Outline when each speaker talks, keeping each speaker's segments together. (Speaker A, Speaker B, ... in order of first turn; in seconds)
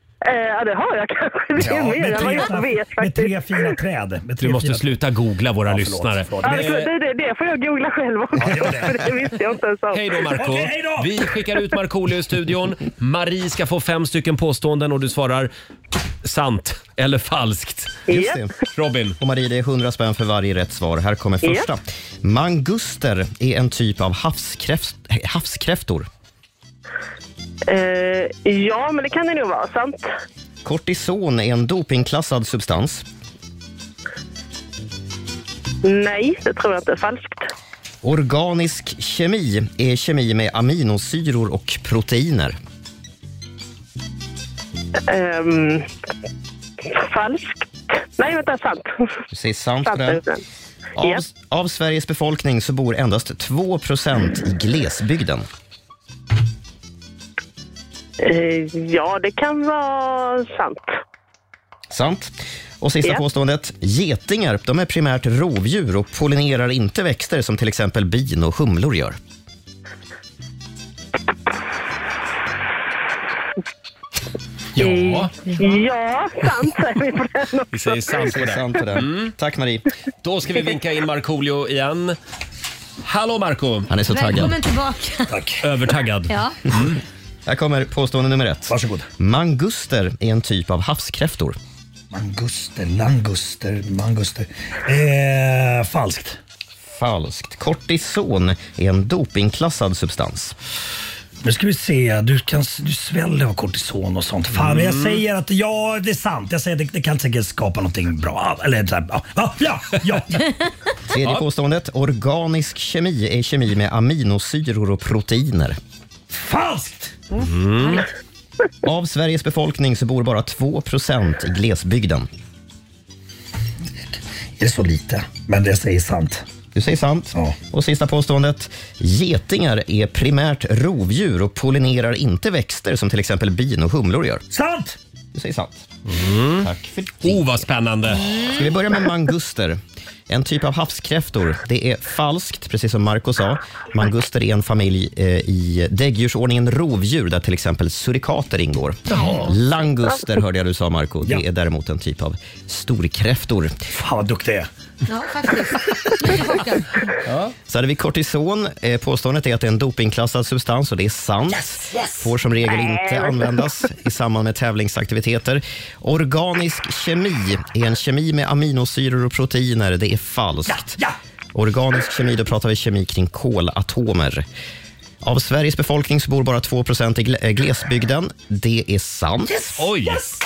Speaker A: 0.2-3.7, 6.4-10.2, 18.1-18.4, 27.7-30.1, 35.8-37.5, 45.1-45.9, 46.9-49.0, 49.8-50.4, 58.2-61.0, 74.8-78.0, 162.7-163.4
Speaker B: 1.6-4.8, 5.7-6.7, 8.3-9.1, 10.3-11.2, 85.3-85.6, 88.7-89.1, 92.1-96.4, 101.4-110.5, 116.3-117.2, 124.6-126.4, 127.3-127.6, 134.5-135.0, 153.9-154.7, 161.6-162.2, 170.7-171.2, 179.4-180.3
Speaker C: 4.4-6.9, 9.9-15.5, 16.2-18.1, 18.7-19.2, 74.7-75.3, 77.7-79.3, 80.2-82.2, 83.0-83.9, 85.6-87.0, 104.5-105.2, 117.4-118.0, 136.1-136.7, 137.2-138.2, 179.8-180.2
Speaker D: 18.1-18.5, 19.2-26.1, 30.6-33.0, 38.0-42.6, 49.3-50.2, 51.0-55.5, 61.9-69.2, 78.2-79.8, 83.9-84.5, 87.5-91.5, 96.9-100.5, 111.1-115.8, 118.8-122.3, 126.7-134.4, 135.3-135.9, 136.6-137.6, 138.3-153.8, 157.7-170.9, 171.5-174.4, 175.2-179.6
Speaker E: 84.1-85.4, 86.3-86.6, 138.1-138.7, 155.1-157.1